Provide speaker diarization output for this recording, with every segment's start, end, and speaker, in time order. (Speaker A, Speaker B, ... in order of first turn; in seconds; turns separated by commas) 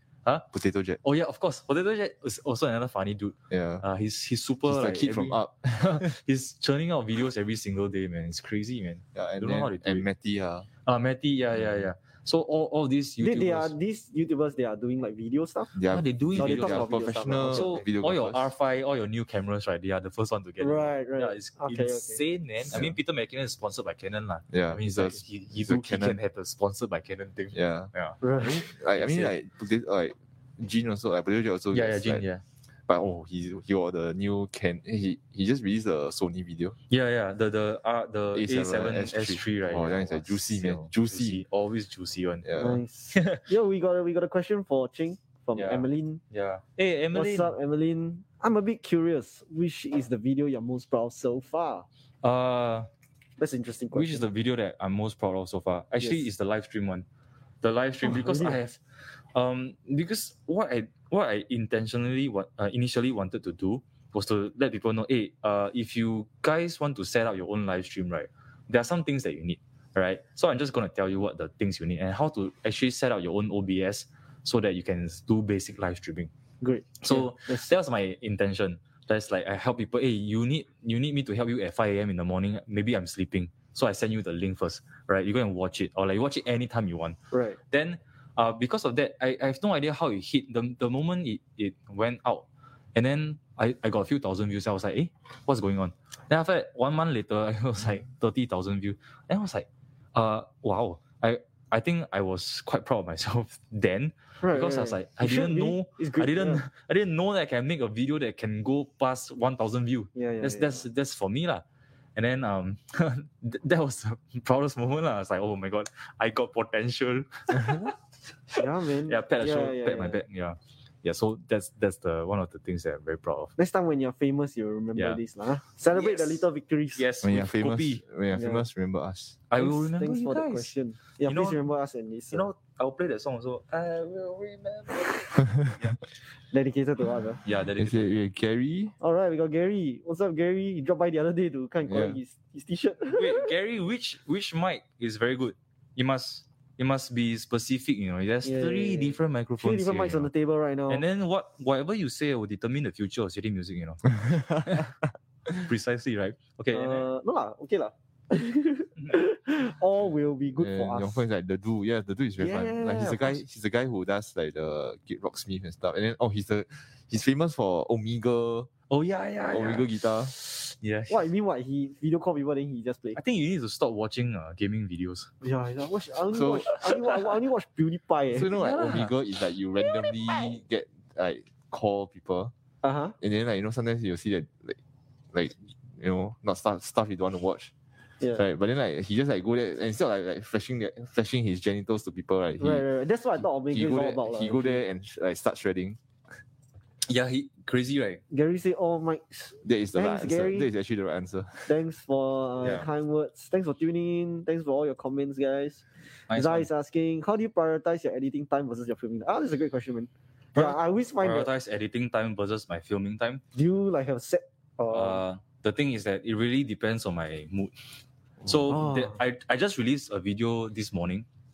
Speaker A: 0.5-1.0, Speaker B: 1.0-5.4, Speaker A: 3.5-3.8, Speaker A: 4.7-6.1, Speaker B: 6.0-10.1, Speaker A: 9.2-10.7, Speaker B: 10.8-13.7, Speaker C: 13.2-15.8, Speaker A: 15.8-18.5, Speaker B: 15.9-16.9, Speaker C: 16.4-17.8, Speaker B: 17.5-28.2, Speaker C: 20.6-22.2, Speaker A: 24.5-26.2, Speaker A: 27.5-32.2, Speaker C: 28.2-28.6, Speaker B: 28.9-29.3, Speaker B: 31.7-32.4, Speaker A: 32.9-36.8, Speaker B: 36.9-42.5, Speaker A: 38.3-41.4, Speaker A: 42.4-42.8, Speaker C: 42.5-46.2, Speaker B: 43.1-43.4, Speaker B: 45.5-47.5, Speaker C: 47.1-51.9, Speaker B: 52.2-52.9, Speaker C: 53.4-54.2, Speaker B: 53.9-57.1, Speaker B: 57.6-58.8, Speaker C: 58.0-58.6, Speaker B: 59.4-76.3, Speaker C: 76.6-77.7, Speaker B: 77.0-87.2, Speaker C: 87.3-87.6, Speaker B: 87.7-111.6, Speaker C: 104.4-106.6, Speaker C: 110.2-110.8, Speaker B: 112.2-117.9, Speaker B: 118.5-123.5, Speaker C: 118.5-120.2, Speaker C: 123.6-127.1, Speaker B: 125.9-128.0, Speaker A: 127.2-129.4, Speaker C: 128.3-128.7, Speaker B: 129.5-130.7, Speaker C: 129.6-132.5, Speaker B: 131.3-131.6, Speaker B: 132.3-136.0, Speaker C: 136.5-137.4, Speaker B: 137.4-138.2, Speaker A: 137.8-138.9, Speaker C: 139.0-143.5, Speaker A: 141.9-142.2, Speaker B: 143.1-150.3, Speaker C: 148.4-151.1, Speaker B: 150.9-154.9, Speaker B: 155.6-157.1, Speaker C: 156.7-161.2, Speaker A: 160.6-168.7, Speaker C: 162.4-163.4, Speaker B: 168.9-171.3, Speaker A: 169.5-170.3, Speaker C: 171.1-173.2, Speaker B: 173.1-175.3, Speaker C: 175.4-178.5, Speaker A: 176.3-177.0, Speaker A: 178.3-182.5, Speaker B: 178.5-179.1, Speaker C: 182.8-183.2, Speaker A: 183.2-184.8, Speaker A: 185.3-187.7, Speaker A: 188.3-192.8, Speaker C: 192.6-194.8, Speaker A: 193.7-196.0, Speaker B: 197.1-198.2, Speaker C: 198.3-200.7, Speaker A: 199.6-201.8, Speaker C: 201.7-211.5, Speaker B: 202.6-202.9, Speaker B: 206.3-206.7, Speaker B: 210.6-213.4, Speaker C: 213.6-215.2, Speaker B: 214.9-221.3, Speaker C: 218.7-219.2